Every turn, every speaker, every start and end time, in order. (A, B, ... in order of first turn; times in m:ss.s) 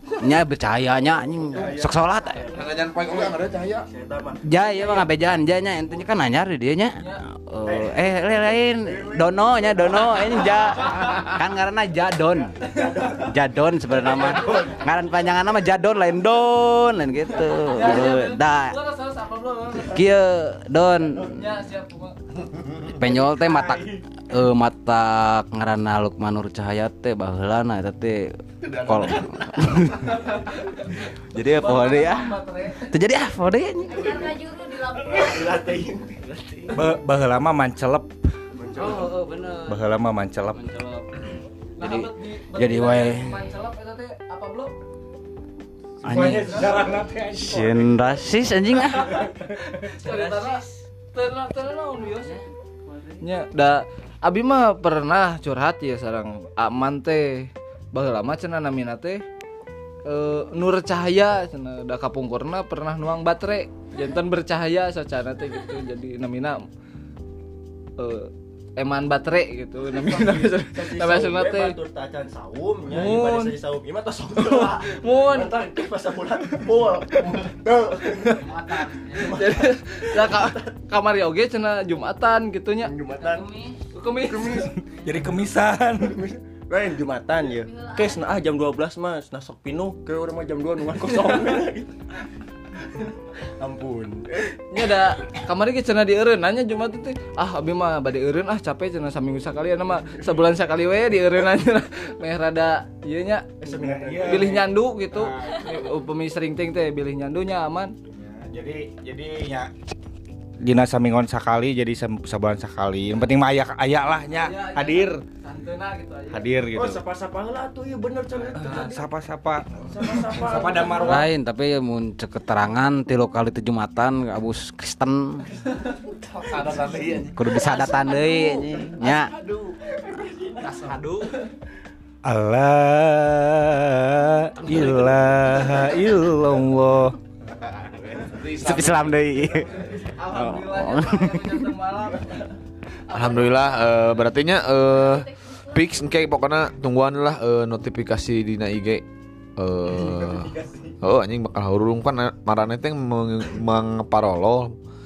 0:00.2-0:02.5 A
0:01.5-0:04.9 B
0:02.5-0:03.9 C
0:04.4-0:18.8 A
0:07.6-0:10.6 B
0:12.8-0:13.2 B
0:14.0-0:14.8 D
0:17.6-0:20.1 D
0:19.9-0:21.4 A
0:21.1-0:22.2 D
0:22.5-0:23.0 C
0:22.8-0:28.3 A
0:23.2-0:24.0 D
0:28.6-0:30.2 C
0:28.8-0:30.1 A
0:30.2-0:30.6 D
0:31.3-0:34.3 A
0:31.4-0:32.8 D
0:33.9-0:35.8 E
0:35.1-0:36.7 B
0:36.7-0:38.1 F
0:38.5-0:39.2 B
0:38.8-0:39.8 A
0:39.7-0:40.6 F
0:40.4-0:41.2 A
0:41.8-0:44.7 D
0:41.8-0:43.4 A
0:46.0-0:49.2 A
0:46.0-0:48.2 F
0:46.2-0:46.8 B
0:48.8-0:49.9 F
0:49.9-0:52.4 D
0:50.0-0:50.7 A
0:52.0-0:53.3 A
0:53.2-0:59.2 D
1:00.0-1:06.6 D
1:08.0-1:11.7 D
1:09.9-1:20.6 B
1:12.9-1:13.5 D
1:14.4-1:15.6 D
1:18.3-1:19.4 A
1:19.1-1:22.9 D
1:22.8-1:23.6 B
1:23.2-1:23.8 A
1:23.9-1:24.7 D
1:24.2-1:24.8 B
1:24.9-1:25.2 A
1:24.9-1:26.2 F
1:26.0-1:31.9 B
1:27.4-1:28.4 E
1:33.4-1:34.6 B
1:34.7-1:43.5 D
1:43.6-1:44.6 B
1:43.7-1:45.9 F
1:44.2-1:47.9 D
1:48.1-1:49.7 F
1:50.6-1:55.2 F
1:54.3-1:56.5 D
1:56.3-1:57.0 F
1:56.7-1:59.0 B
1:58.5-2:01.3 F
1:58.6-1:58.9 D
1:59.8-2:01.2 B
2:01.0-2:05.4 A
2:06.3-2:07.7 C
2:06.5-2:07.7 F
2:07.3-2:09.4 A
2:09.4-2:10.8 B
2:10.6-2:11.3 F
2:12.2-2:17.2 F
2:14.6-2:14.9 A
2:17.4-2:19.6 C
2:18.5-2:21.7 A
2:19.8-2:22.4 D
2:23.1-2:24.1 D
2:23.1-2:29.0 C
2:24.8-2:26.2 E
2:29.6-2:34.7 C
2:30.0-2:30.9 B